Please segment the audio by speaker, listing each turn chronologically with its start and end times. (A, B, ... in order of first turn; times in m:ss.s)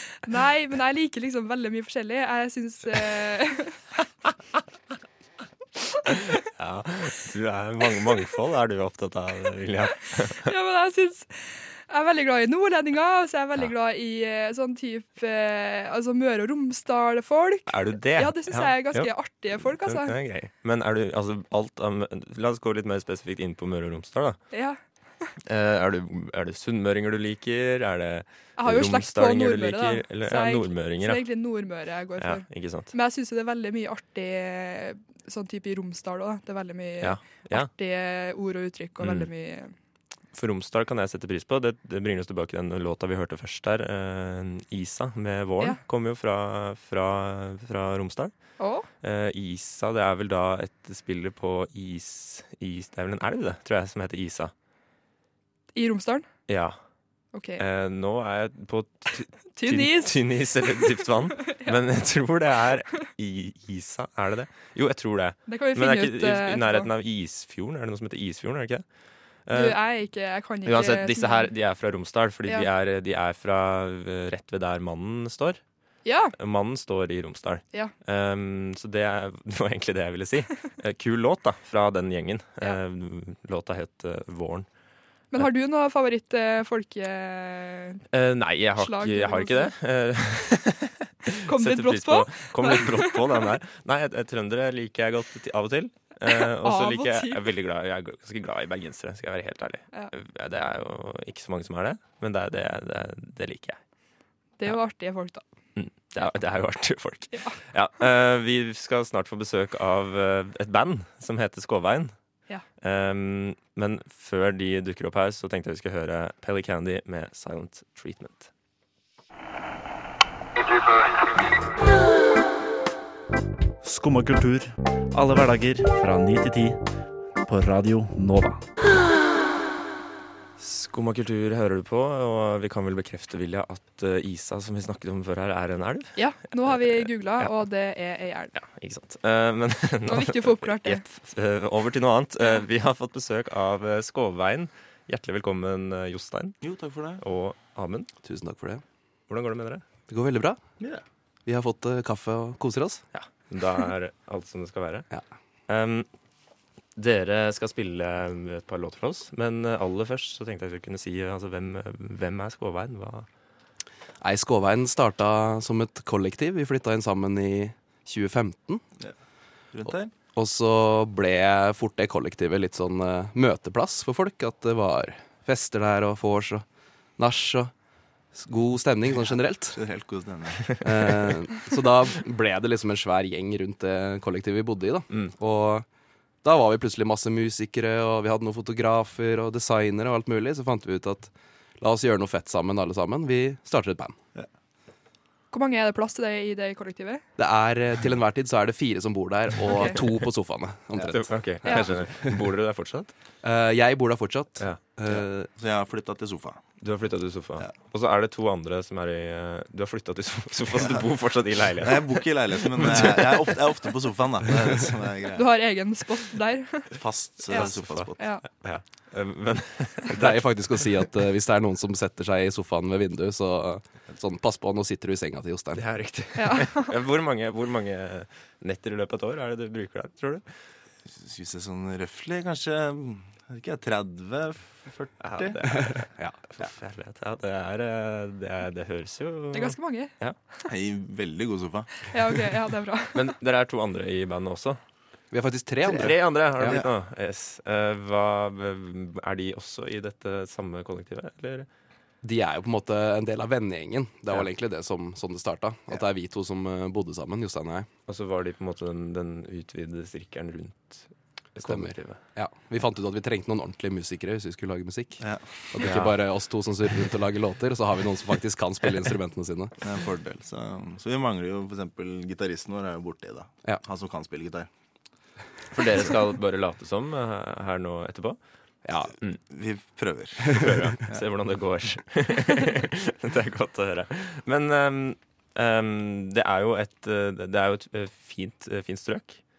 0:00.3-0:03.8 A
0:06.1-0:10.5 B
0:10.4-0:20.2 A
0:17.7-0:24.4 B
0:24.5-0:24.8 A
0:25.4-0:31.3 B
0:28.6-0:39.7 A
0:32.2-0:32.9 B
0:37.0-0:37.7 B
0:39.0-0:39.3 B
0:40.3-0:48.3 B
0:48.6-0:48.9 A
0:49.0-0:54.5 B
0:55.7-0:56.3 A
0:56.5-0:56.8 B
0:57.3-0:57.6 A
0:57.6-1:08.8 B
0:59.6-1:01.8 A
1:05.5-1:06.9 A
1:09.5-1:09.8 B
1:09.5-1:11.5 A
1:10.6-1:15.6 B
1:16.0-1:16.3 A
1:16.4-1:24.7 B
1:25.3-1:28.0 A
1:28.1-1:43.8 B
1:28.8-1:29.7 A
1:31.5-1:33.5 A
1:36.3-1:37.4 A
1:44.6-1:45.4 A
1:45.8-1:52.1 B
1:47.3-1:47.6 A
1:52.8-1:58.5 B
2:03.8-2:08.7 C
2:10.6-2:17.5 B
2:16.2-2:18.5 A
2:18.6-2:26.6 B
2:20.0-2:21.0 A
2:26.6-2:27.2 D
2:27.2-2:28.1 B
2:28.2-2:28.8 E
2:29.3-2:29.8 B
2:30.1-2:30.6 E
2:31.5-2:33.0 E
2:33.1-2:35.1 B
2:35.7-2:36.1 B
2:37.0-2:43.3 B
2:44.2-2:48.8 E
2:49.7-2:50.1 D
2:50.4-2:56.6 E
2:57.2-2:57.7 E
2:58.3-2:59.8 E
2:59.7-3:00.8 D
3:00.8-3:05.9 E
3:06.4-3:14.2 E
3:15.5-3:17.2 A
3:17.4-3:22.3 E
3:19.6-3:20.0 A
3:21.0-3:23.1 B
3:21.6-3:21.9 A
3:23.4-3:25.5 E
3:25.1-3:26.6 D
3:26.8-3:33.8 B
3:30.8-3:31.0 D
3:31.8-3:35.5 D
3:35.3-3:36.9 A
3:36.9-3:38.2 D
3:37.5-3:38.4 A
3:37.5-3:40.4 B
3:40.1-3:45.8 E
3:45.8-3:50.4 B
3:46.4-3:47.0 A
3:51.1-3:55.6 D
3:55.2-4:00.4 B
3:55.7-3:56.5 E
3:59.5-4:00.1 A
4:00.6-4:02.1 D
4:02.1-4:03.3 A
4:03.2-4:04.8 B
4:05.3-4:06.8 E
4:05.9-4:11.7 B
4:12.2-4:17.9 E
4:18.1-4:22.2 B
4:21.6-4:29.8 E
4:25.2-4:25.8 D
4:25.8-4:26.1 B
4:29.8-4:34.7 D
4:35.7-4:38.4 B
4:38.8-4:39.1 E
4:39.5-4:41.2 D
4:40.5-4:49.4 B